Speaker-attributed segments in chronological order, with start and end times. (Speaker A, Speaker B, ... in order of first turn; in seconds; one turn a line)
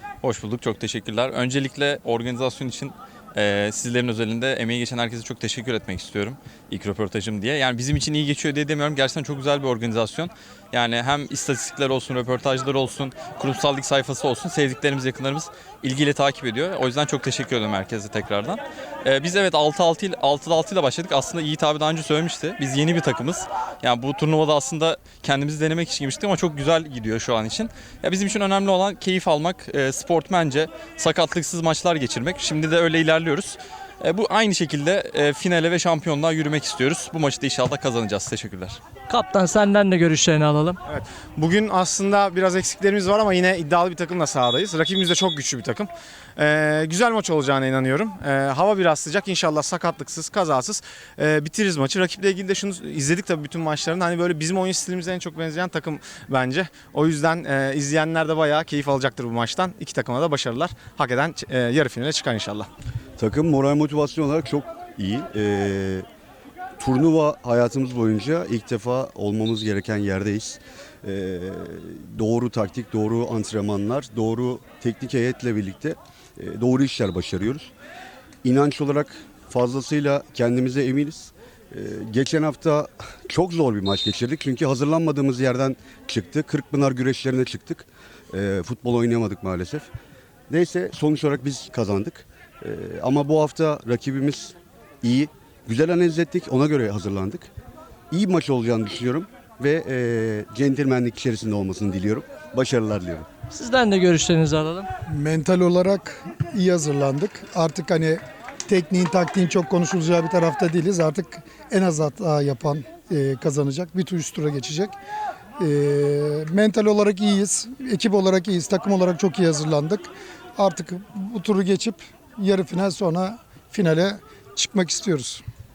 Speaker A: 0.2-38.8
Speaker B: 39.1-40.8
Speaker C: 40.9-62.7
Speaker D: 63.2-66.0
Speaker D: 66.8-77.7
Speaker D: 78.4-89.9
Speaker D: 90.5-97.5
Speaker D: 98.1-103.3
Speaker B: 103.5-104.9
Speaker E: 105.1-115.0
Speaker E: 115.6-125.4